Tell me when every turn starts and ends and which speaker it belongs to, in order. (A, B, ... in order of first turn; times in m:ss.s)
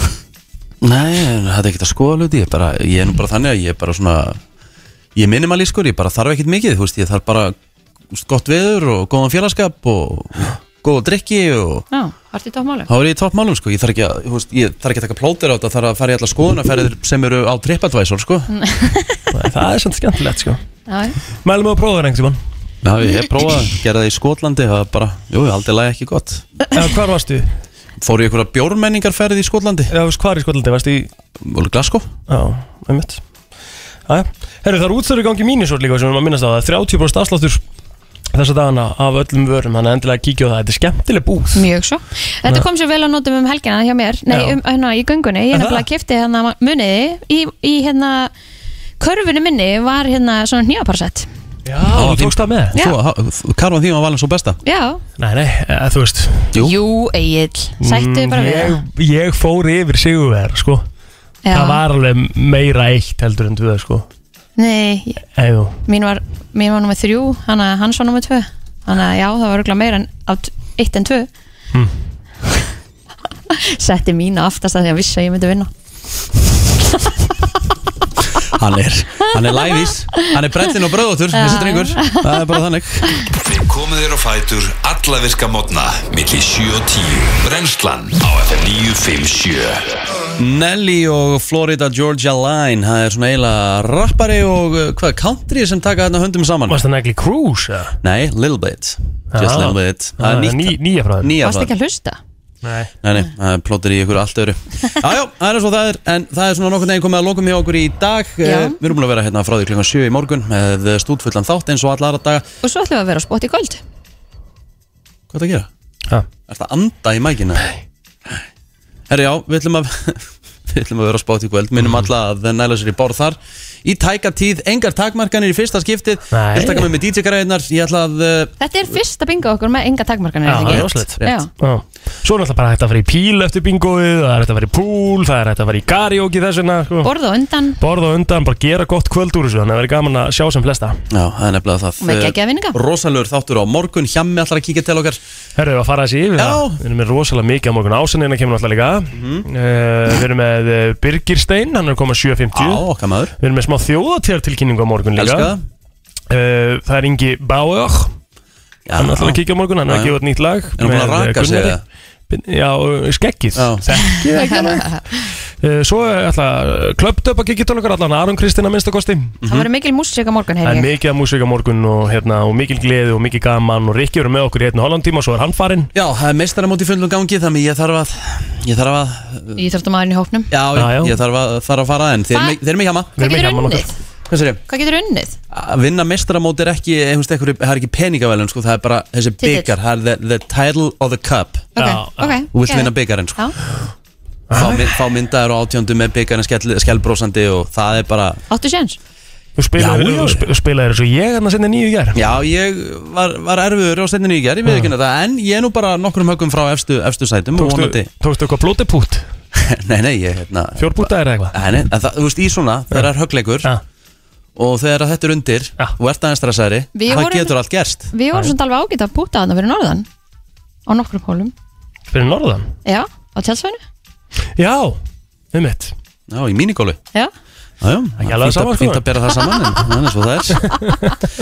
0:00.8-0:04.4 A
0:05.1-0:07.5 A
0:08.1-0:11.8 A
0:11.9-0:12.9 B
0:12.9-0:18.5 A
0:18.5-0:19.2 B
0:19.3-0:20.6 C
0:20.9-0:21.2 B
0:21.4-0:22.4 C
0:22.8-0:26.4 A
0:26.7-0:27.5 C
0:28.0-0:29.9 A
0:29.9-0:31.1 C
0:31.4-0:32.1 A
0:32.3-0:33.2 C
0:34.1-0:37.6 C
0:38.3-0:41.6 C
0:41.5-0:48.3 B
0:44.3-0:44.6 C
0:45.5-0:45.8 C
0:49.0-0:51.3 B
0:51.6-0:52.7 C
0:51.9-0:54.6 A
0:54.6-0:55.0 B
0:55.2-0:56.5 C
0:56.6-0:58.8 B
0:57.8-1:00.8 C
1:01.4-1:01.8 B
1:01.5-1:04.0 C
1:04.6-1:05.2 B
1:05.4-1:05.8 C
1:05.9-1:11.3 B
1:13.5-1:15.7 B
1:17.0-1:17.3 B
1:18.5-1:23.2 A
1:19.3-1:19.9 B
1:21.3-1:22.6 B
1:23.3-1:30.0 D
1:30.4-1:36.8 A
1:36.7-1:38.0 C
1:38.0-1:41.7 A
1:39.3-1:41.3 C
1:41.4-1:42.2 B
1:42.6-1:42.9 C
1:43.0-1:52.4 A
1:48.4-1:48.8 B
1:52.6-1:53.8 B
1:55.3-1:55.7 A
1:56.5-1:57.6 A
1:59.1-2:08.5 A
2:06.3-2:06.9 C
2:08.6-2:11.5 B
2:10.4-2:17.1 C
2:10.6-2:11.4 A
2:17.0-2:17.8 B
2:17.8-2:21.0 C
2:21.1-2:25.2 A
2:22.0-2:22.8 B
2:25.6-2:32.8 C
2:26.4-2:26.8 A
2:29.1-2:29.4 A
2:32.5-2:33.3 A
2:33.4-2:35.5 C
2:35.2-2:35.6 A
2:36.3-2:38.1 C
2:38.8-2:40.1 A
2:39.0-2:41.7 C
2:40.8-2:41.8 A
2:42.3-2:49.4 C
2:43.5-2:43.8 A
2:44.3-2:45.3 B
2:49.4-2:49.7 A
2:49.4-2:50.9 B
2:50.6-2:55.9 C
2:55.9-2:59.6 A
2:59.6-3:00.5 B
3:00.5-3:03.1 A
3:00.7-3:01.2 C
3:03.2-3:03.8 C
3:03.2-3:03.9 B
3:04.3-3:04.6 A
3:04.7-3:05.4 B
3:05.5-3:11.7 A
3:09.4-3:09.7 B
3:11.8-3:13.6 B
3:11.8-3:12.4 C
3:12.5-3:13.4 A
3:14.5-3:14.9 C
3:14.5-3:18.4 A
3:18.5-3:19.0 B
3:19.6-3:22.2 C
3:19.8-3:20.4 A
3:22.1-3:28.1 A
3:24.6-3:24.9 C
3:27.6-3:29.3 C
3:29.5-3:33.7 A
3:30.8-3:31.6 C
3:34.6-3:38.1 A
3:36.9-3:37.6 B
3:38.1-3:40.0 B
3:40.9-3:41.5 B
3:42.1-3:42.7 C
3:42.8-3:43.8 B
3:44.6-3:45.0 C
3:45.5-3:45.9 C
3:46.3-3:47.0 A
3:47.8-3:50.8 A
3:48.2-3:49.0 C
3:50.8-3:51.1 C